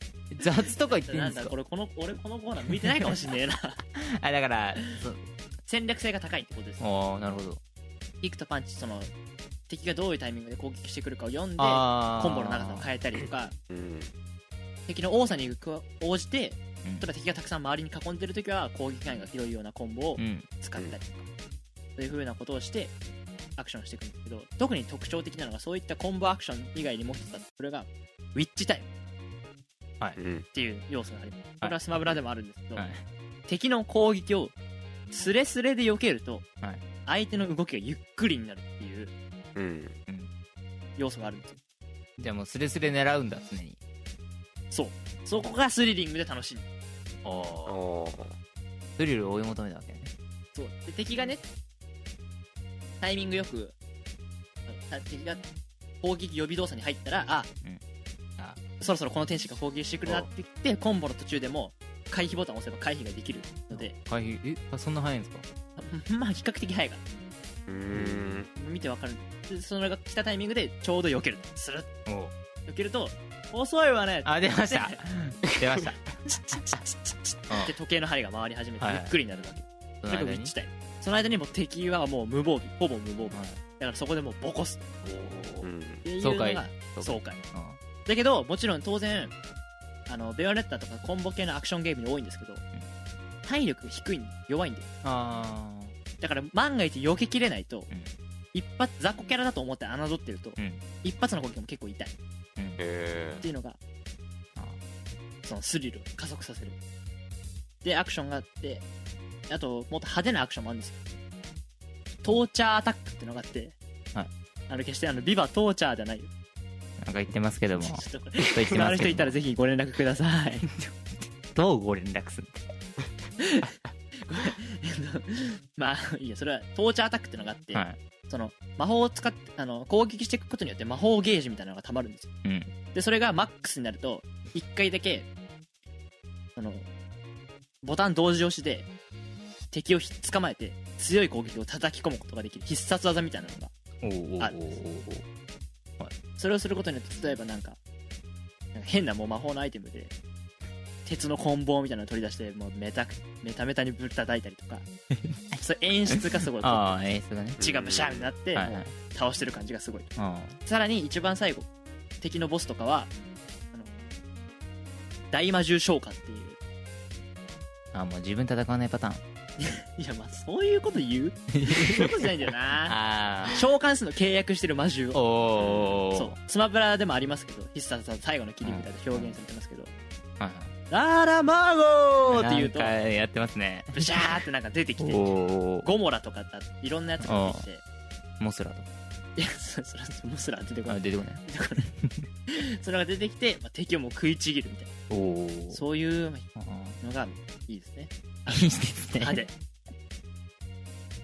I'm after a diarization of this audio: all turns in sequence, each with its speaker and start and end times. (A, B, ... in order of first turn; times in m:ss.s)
0:00.3-0:01.5 A
0:00.6-0:03.8 B
0:04.0-0:05.2 A
0:05.7-0:06.8 B
0:06.8-0:07.6 A
0:08.2-0:09.1 B
0:09.7-0:13.5 B
0:11.6-0:12.9 A
0:13.7-0:14.1 C
0:14.9-0:21.3 B
0:20.2-0:20.5 A
0:22.0-0:22.9 B
0:23.6-0:28.9 B
0:30.2-0:30.4 C
0:30.5-0:32.9 B
0:32.8-0:33.0 A
0:33.5-0:34.5 B
0:35.1-0:36.4 B
0:37.1-0:39.1 B
0:39.6-0:40.0 C
0:40.1-0:40.3 A
0:41.0-0:41.6 B
0:42.2-0:43.8 A
0:44.7-0:46.7 B
0:47.2-0:47.8 A
0:47.7-0:48.4 C
0:49.0-0:50.1 A
0:50.5-0:51.4 B
0:53.0-0:53.8 B
0:54.7-0:55.4 B
0:56.0-0:57.5 B
0:58.8-1:04.0 B
1:03.7-1:05.4 A
1:05.8-1:07.0 B
1:07.7-1:08.5 C
1:08.5-1:11.9 B
1:12.1-1:12.3 A
1:12.7-1:15.0 B
1:14.2-1:16.1 A
1:16.4-1:25.0 B
1:17.5-1:17.7 A
1:18.8-1:19.2 A
1:20.0-1:20.5 A
1:23.3-1:23.6 A
1:25.0-1:25.6 A
1:25.6-1:26.0 C
1:26.0-1:27.4 B
1:26.2-1:27.8 A
1:28.0-1:29.3 B
1:30.1-1:32.6 B
1:33.4-1:34.9 B
1:35.0-1:36.0 A
1:36.2-1:37.9 B
1:38.5-1:42.1 B
1:42.8-1:43.4 C
1:43.4-1:43.8 B
1:45.4-1:46.8 B
1:47.8-1:48.8 B
1:49.5-1:51.0 B
1:52.2-1:53.8 B
1:54.7-1:56.3 B
1:57.0-1:59.4 A
1:57.8-2:00.7 B
2:00.7-2:01.0 A
2:01.5-2:02.7 A
2:03.4-2:03.7 B
2:04.2-2:12.3 B
2:07.7-2:08.0 A
2:12.4-2:12.7 A
2:12.9-2:15.3 B
2:16.6-2:16.9 B
2:17.8-2:18.9 B
2:19.7-2:23.7 B
2:24.0-2:25.2 A
2:24.4-2:24.6 B
2:26.4-2:27.8 B
2:28.7-2:30.2 B
2:31.0-2:34.9 B
2:35.2-2:37.6 A
2:35.6-2:40.1 B
2:37.6-2:38.3 C
2:38.6-2:38.9 A
2:40.2-2:40.6 A
2:40.6-2:41.7 B
2:42.2-2:43.1 B
2:45.3-2:46.6 B
2:47.9-2:49.2 A
2:49.6-2:55.2 B
2:51.5-2:52.3 A
2:52.9-2:53.6 A
2:55.1-2:56.4 A
2:55.6-2:56.0 C
2:56.1-2:59.9 B
2:58.6-2:59.3 A
3:00.4-3:00.7 A
3:00.9-3:02.9 B
3:02.3-3:04.1 A
3:03.9-3:07.8 B
3:05.0-3:05.9 A
3:07.2-3:07.6 A
3:08.4-3:08.9 A
3:09.4-3:11.9 B
3:10.9-3:12.3 A
3:12.5-3:15.0 B
3:15.1-3:15.8 A
3:15.7-3:16.5 B
3:16.6-3:17.0 A
3:17.0-3:19.5 B
3:18.5-3:19.4 A